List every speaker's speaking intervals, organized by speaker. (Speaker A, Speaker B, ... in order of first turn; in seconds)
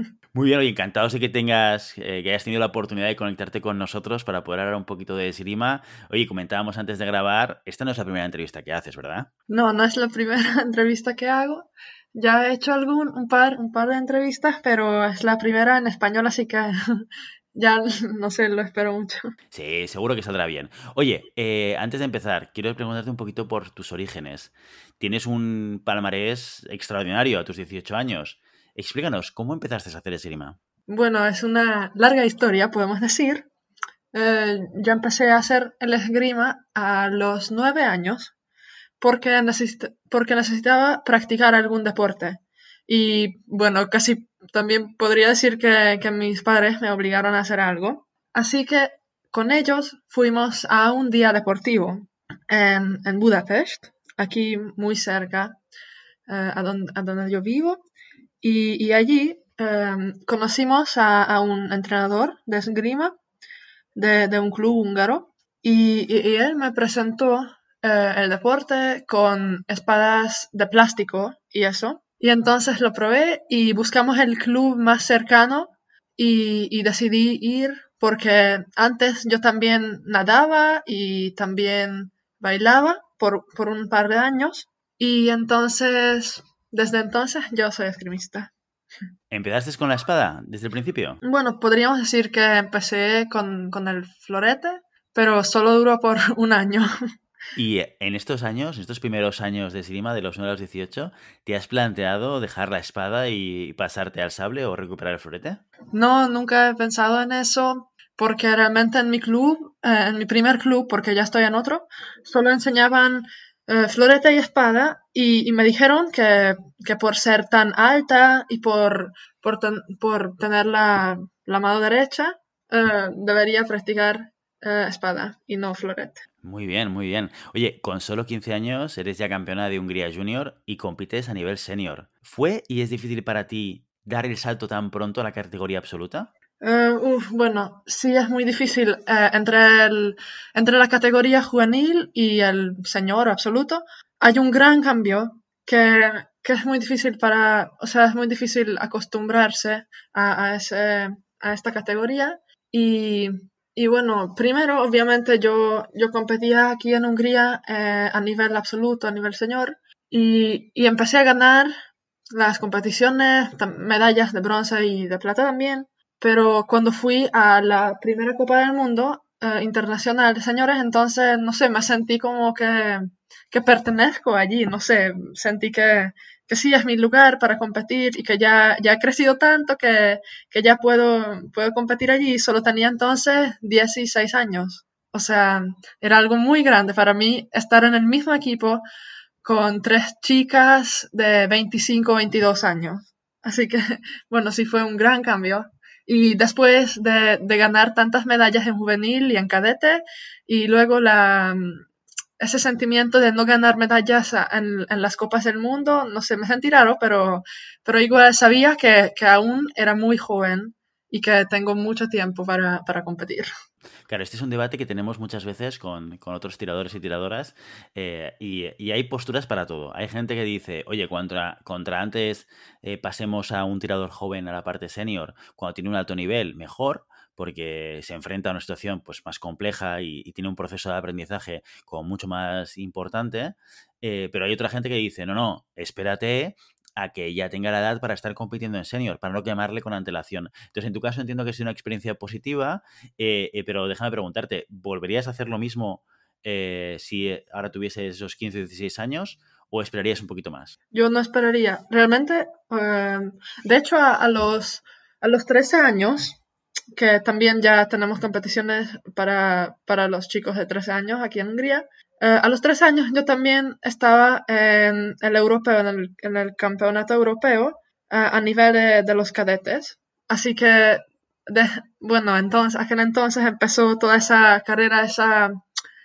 Speaker A: 0.3-9.3, 19.5-30.6, 89.3-91.2, 97.5-105.6, 126.4-136.3, 214.1-250.7
Speaker B: 9.5-19.4, 30.9-33.5, 34.1-38.3, 39.0-55.6, 56.3-57.8, 58.4-63.1, 64.0-88.5, 91.2-96.9, 105.9-126.2, 136.6-161.7, 162.3-188.8, 189.4-201.8, 202.4-213.5, 250.9-256.4, 256.9-275.6